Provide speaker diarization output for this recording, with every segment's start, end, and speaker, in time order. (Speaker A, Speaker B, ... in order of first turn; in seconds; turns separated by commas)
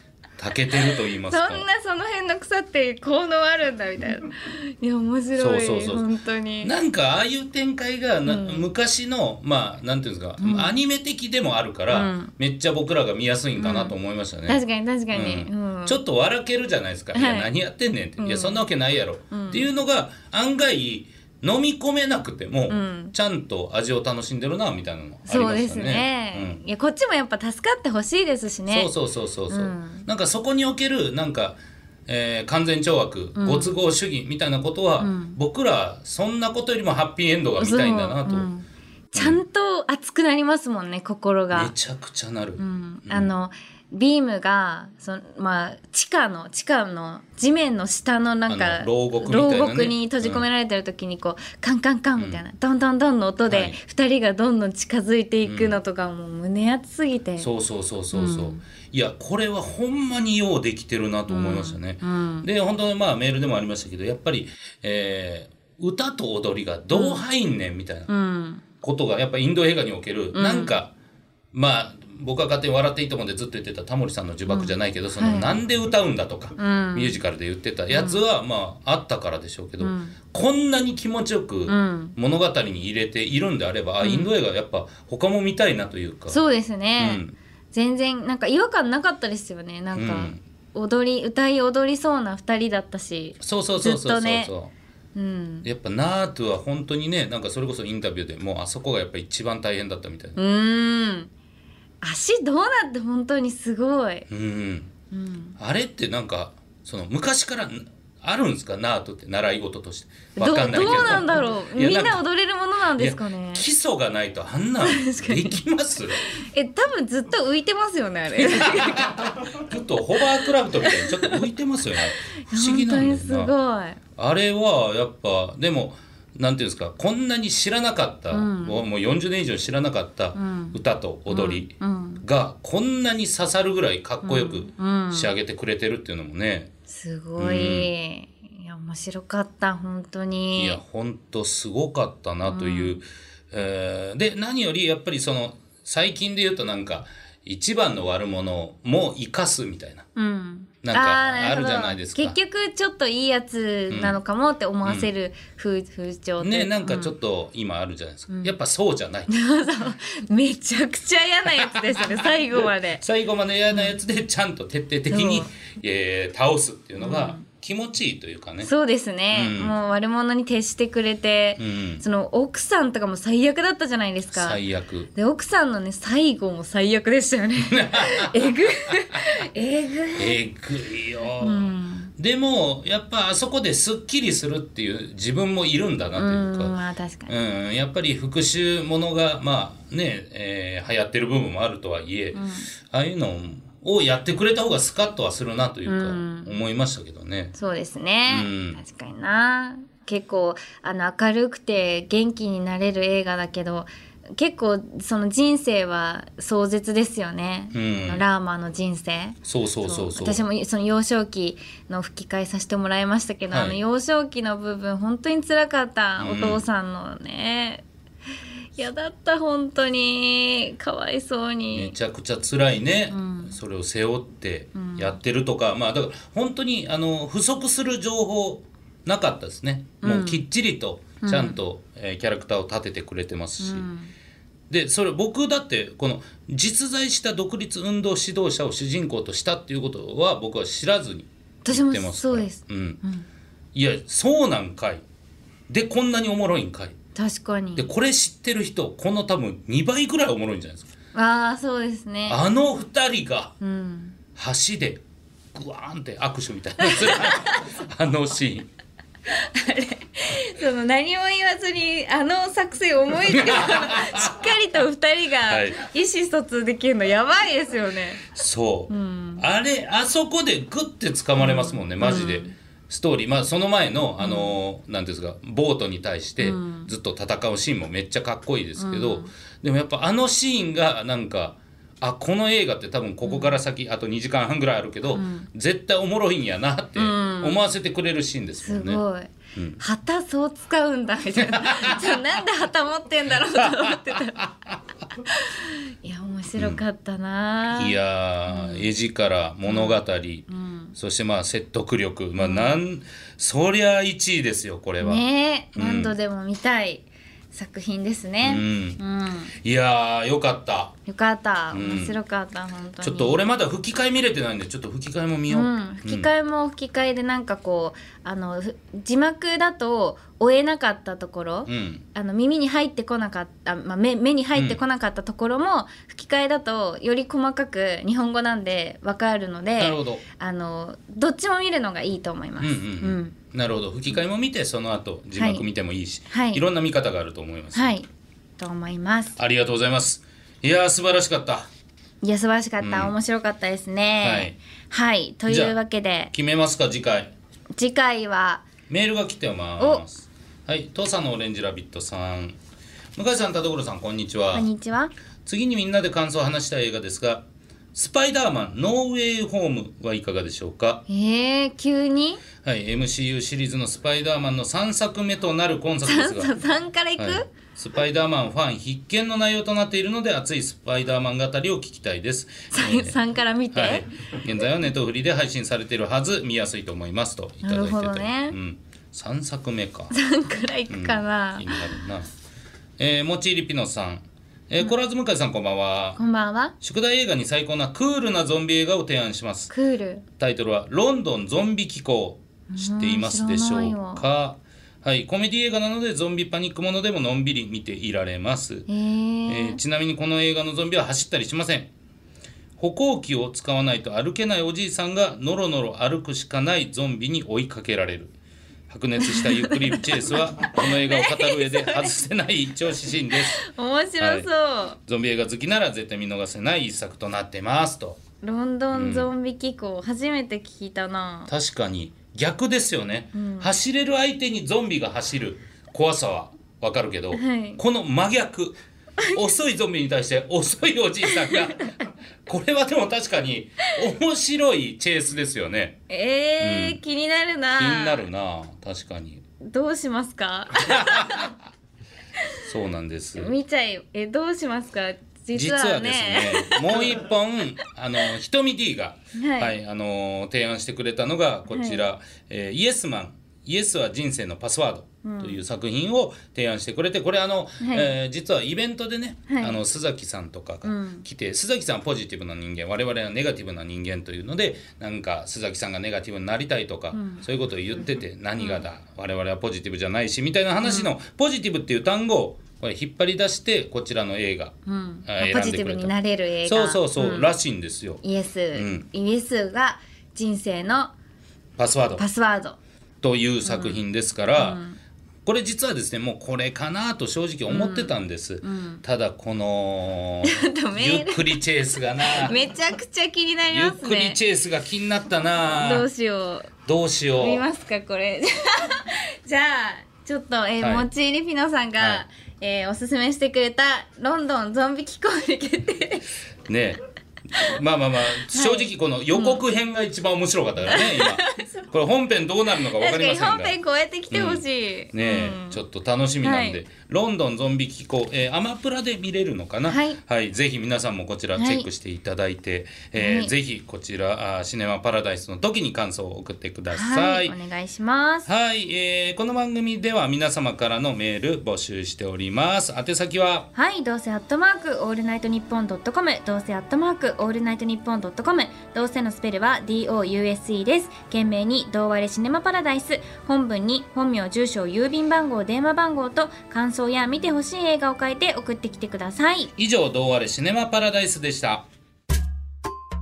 Speaker A: 0.4-1.6, Speaker B: 0.8-6.7, Speaker A: 5.4-6.0, Speaker A: 6.6-26.6, Speaker B: 8.2-8.7, Speaker B: 10.4-10.7, Speaker B: 11.9-12.3, Speaker B: 13.6-13.9, Speaker B: 14.5-16.0, Speaker B: 17.1-17.5, Speaker B: 18.2-18.6, Speaker B: 19.3-19.6, Speaker B: 22.7-23.1, Speaker B: 25.3-28.9, Speaker A: 28.7-38.5, Speaker B: 29.5-30.1, Speaker B: 33.4-33.8, Speaker B: 35.0-35.4, Speaker B: 37.6-41.7, Speaker A: 39.1-39.4, Speaker A: 41.5-43.3, Speaker B: 42.6-57.5, Speaker A: 48.5-50.4, Speaker A: 52.2-52.4, Speaker A: 53.5-53.8, Speaker A: 55.4-55.8, Speaker A: 57.4-68.1, Speaker B: 58.1-58.6, Speaker B: 61.3-62.5, Speaker B: 66.9-67.2, Speaker B: 68.1-68.6, Speaker A: 68.8-70.9, Speaker B: 70.3-70.7, Speaker A: 71.5-86.4, Speaker B: 74.5-75.6, Speaker B: 76.6-77.2, Speaker B: 77.9-78.2, Speaker B: 79.8-80.2, Speaker B: 81.7-82.2, Speaker B: 84.0-84.3, Speaker B: 86.3-87.2, Speaker A: 87.0-87.3, Speaker B: 87.7-94.5, Speaker A: 89.9-90.4, Speaker A: 93.4-94.7, Speaker B: 95.1-95.7, Speaker A: 95.6-100.4, Speaker B: 100.3-101.3, Speaker B: 102.0-104.3, Speaker A: 104.3-104.9, Speaker B: 105.1-105.6, Speaker A: 105.6-112.2, Speaker B: 110.3-113.7, Speaker A: 113.0-116.2, Speaker B: 114.8-115.6, Speaker B: 116.3-119.3, Speaker A: 118.3-123.5, Speaker B: 120.8-121.5, Speaker B: 122.4-124.0, Speaker A: 124.2-136.7, Speaker B: 128.3-128.8, Speaker B: 130.3-132.2, Speaker B: 134.2-135.3, Speaker B: 136.9-140.8, Speaker A: 137.4-137.9, Speaker A: 140.5-150.1, Speaker B: 142.4-143.0, Speaker B: 150.1-157.1, Speaker A: 150.8-152.4, Speaker A: 153.9-154.2, Speaker A: 154.8-155.1, Speaker A: 156.4-159.3, Speaker B: 159.3-163.0, Speaker A: 161.5-168.7, Speaker B: 165.1-165.5, Speaker B: 167.0-167.4, Speaker B: 168.6-174.6, Speaker A: 169.3-169.8, Speaker A: 171.6-172.0, Speaker A: 174.3-175.1, Speaker B: 175.1-180.4, Speaker A: 177.7-179.2, Speaker A: 180.2-186.8, Speaker B: 181.4-182.1, Speaker B: 186.2-187.3, Speaker A: 187.3-197.5, Speaker B: 192.3-192.7, Speaker B: 195.8-196.5, Speaker B: 197.5-217.8, Speaker A: 198.3-198.8, Speaker A: 207.7-208.2, Speaker A: 209.4-210.4, Speaker A: 213.5-213.8, Speaker A: 216.2-216.6, Speaker B: 218.8-221.9, Speaker A: 221.7-233.9, Speaker B: 223.1-223.5, Speaker B: 224.7-225.2, Speaker B: 230.0-230.4, Speaker B: 231.2-231.6, Speaker B: 233.6-234.1, Speaker A: 234.7-243.0, Speaker B: 241.6-243.3, Speaker A: 243.7-245.0, Speaker A: 245.7-246.9, Speaker B: 247.1-247.9, Speaker A: 247.8-250.9, Speaker B: 251.1-252.4, Speaker A: 252.3-253.5, Speaker B: 253.6-254.2, Speaker A: 254.3-255.0, Speaker A: 255.5-258.7, Speaker B: 256.8-257.7, Speaker B: 259.3-268.2, Speaker A: 263.2-264.6, Speaker A: 265.5-265.8, Speaker A: 268.3-289.0, Speaker B: 268.9-269.4, Speaker B: 271.4-272.5, Speaker B: 274.2-274.6, Speaker B: 276.4-276.9, Speaker B: 278.8-279.3, Speaker B: 283.2-283.6, Speaker B: 285.1-285.5, Speaker B: 287.0-287.6, Speaker B: 288.6-294.4, Speaker A: 289.5-289.8, Speaker A: 291.4-292.2, Speaker A: 293.5-294.8, Speaker B: 295.2-298.0, Speaker A: 296.6-296.8, Speaker A: 297.8-305.2, Speaker B: 298.5-298.9, Speaker B: 299.6-300.9, Speaker B: 302.4-302.8, Speaker B: 305.0-309.5, Speaker A: 305.7-306.1, Speaker A: 308.4-309.0, Speaker A: 309.6-310.9, Speaker B: 311.1-313.4, Speaker A: 311.7-312.2, Speaker A: 313.0-316.3, Speaker B: 315.5-333.4, Speaker A: 321.7-322.0, Speaker A: 324.5-324.8, Speaker A: 329.8-330.2, Speaker A: 332.6-337.9, Speaker B: 335.4-335.6, Speaker B: 336.3-336.6, Speaker B: 337.7-339.4, Speaker A: 339.4-341.7, Speaker B: 342.2-346.3, Speaker A: 342.8-343.1, Speaker A: 344.2-344.6, Speaker A: 345.5-345.8, Speaker A: 346.3-347.3, Speaker B: 347.8-348.7, Speaker A: 348.9-352.6, Speaker A: 353.1-354.7, Speaker B: 354.5-355.1, Speaker A: 355.4-361.0, Speaker B: 361.1-362.4, Speaker A: 362.6-366.5, Speaker B: 366.0-367.5, Speaker A: 367.2-373.2, Speaker B: 372.7-374.1, Speaker A: 373.7-380.1, Speaker B: 377.6-378.6, Speaker B: 380.1-381.8, Speaker A: 380.9-382.3, Speaker A: 383.0-386.2, Speaker B: 386.1-386.7, Speaker A: 386.8-389.7, Speaker B: 389.7-390.2, Speaker A: 390.4-398.9, Speaker B: 392.7-394.2, Speaker B: 398.9-399.8, Speaker A: 399.5-401.9, Speaker A: 402.8-408.3, Speaker A: 408.9-413.6, Speaker B: 409.2-412.1, Speaker B: 413.3-415.0, Speaker A: 414.2-414.5, Speaker A: 415.1-418.2, Speaker B: 418.4-421.5, Speaker A: 418.9-419.3, Speaker A: 421.5-428.8, Speaker B: 423.3-423.7, Speaker B: 427.3-427.8, Speaker A: 429.3-436.0, Speaker B: 431.2-432.1, Speaker B: 436.1-438.2, Speaker A: 436.6-437.0, Speaker A: 437.7-439.4, Speaker B: 439.6-441.5, Speaker A: 440.7-441.5, Speaker A: 442.6-443.5, Speaker B: 443.4-447.2, Speaker A: 445.5-474.8, Speaker B: 449.3-449.8, Speaker B: 451.7-452.0, Speaker B: 455.2-455.6, Speaker B: 457.8-458.1, Speaker B: 459.5-459.8, Speaker B: 460.8-461.2, Speaker B: 467.1-467.4, Speaker B: 470.8-471.1, Speaker B: 474.9-477.5, Speaker A: 475.3-476.1, Speaker A: 476.6-478.2, Speaker B: 478.2-481.1, Speaker A: 478.7-479.1, Speaker A: 481.8-482.2, Speaker B: 482.2-482.8, Speaker A: 483.2-484.8, Speaker B: 483.6-484.0, Speaker B: 484.6-485.0, Speaker A: 485.4-492.6, Speaker B: 487.7-489.0, Speaker B: 490.4-491.6, Speaker B: 492.2-494.4, Speaker A: 493.7-496.1, Speaker B: 495.8-496.7, Speaker A: 496.9-497.6, Speaker B: 497.4-506.3, Speaker A: 500.8-501.1, Speaker A: 502.0-502.2, Speaker A: 506.6-513.8, Speaker B: 508.5-509.6, Speaker B: 510.9-511.8, Speaker B: 512.9-515.8, Speaker A: 514.3-527.5, Speaker B: 516.4-516.8, Speaker B: 519.9-520.2, Speaker B: 521.5-521.9, Speaker B: 523.1-523.5, Speaker B: 526.9-528.5, Speaker A: 528.5-533.7, Speaker B: 533.7-549.7, Speaker A: 549.8-551.9